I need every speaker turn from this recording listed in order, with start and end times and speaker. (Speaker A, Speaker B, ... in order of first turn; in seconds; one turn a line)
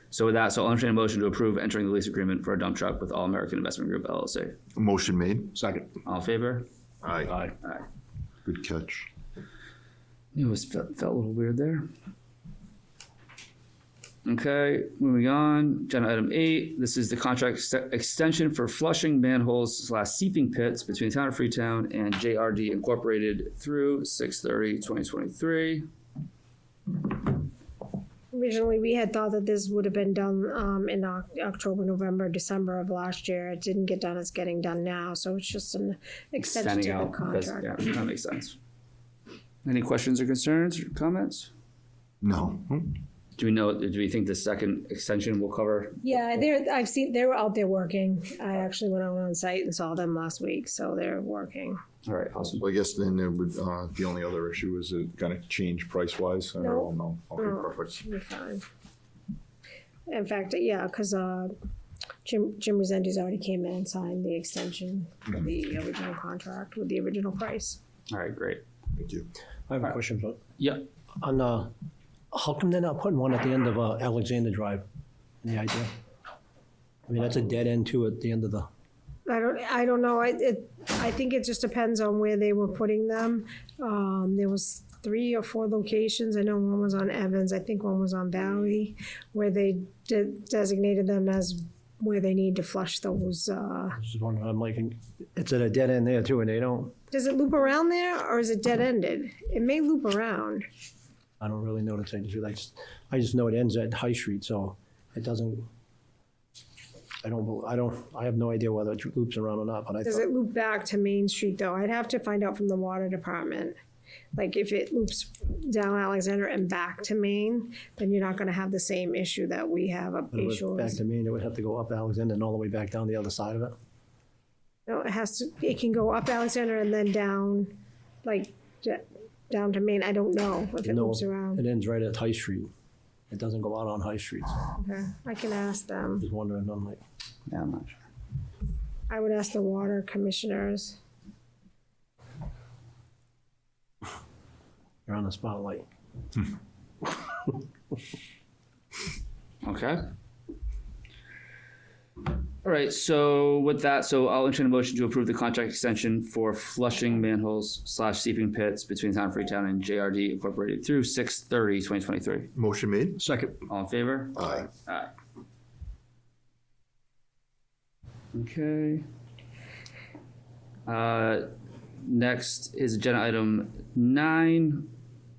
Speaker A: 0.1-4.5
Speaker B: 4.7-5.6
Speaker C: 5.5-5.8
Speaker A: 6.0-6.7
Speaker B: 7.0-7.4
Speaker B: 8.4-9.1
Speaker A: 10.3-11.8
Speaker A: 14.2-25.8
Speaker D: 28.3-37.9
Speaker A: 36.4-38.6
Speaker A: 39.6-41.5
Speaker B: 42.2-43.0
Speaker A: 43.4-46.0
Speaker D: 46.0-51.8
Speaker A: 52.0-52.6
Speaker B: 52.6-58.0
Speaker D: 56.6-58.6
Speaker D: 60.1-61.5
Speaker D: 62.2-67.8
Speaker A: 68.1-68.6
Speaker B: 69.0-69.3
Speaker C: 69.7-70.4
Speaker A: 70.6-70.8
Speaker C: 71.2-71.7
Speaker C: 72.3-74.8
Speaker C: 75.4-75.9
Speaker C: 77.1-78.7
Speaker D: 79.3-94.0
Speaker C: 94.0-96.9
Speaker D: 97.1-100.6
Speaker C: 101.4-105.7
Speaker C: 107.2-110.2
Speaker D: 110.0-113.8
Speaker D: 114.3-121.0
Speaker C: 120.3-123.7
Speaker D: 124.9-127.7
Speaker D: 128.2-131.6
Speaker C: 130.8-132.7
Speaker C: 133.3-134.6
Speaker D: 134.8-136.2
Speaker C: 136.2-137.0
Speaker A: 137.5-138.0
Speaker D: 139.1-141.0
Speaker C: 145.1-145.8
Speaker A: 149.6-150.0
Speaker A: 152.6-162.5
Speaker B: 162.5-163.2
Speaker C: 163.2-163.5
Speaker A: 163.7-165.1
Speaker B: 164.3-164.7
Speaker A: 168.3-169.0
Speaker A: 170.9-171.5
Speaker A: 172.0-174.9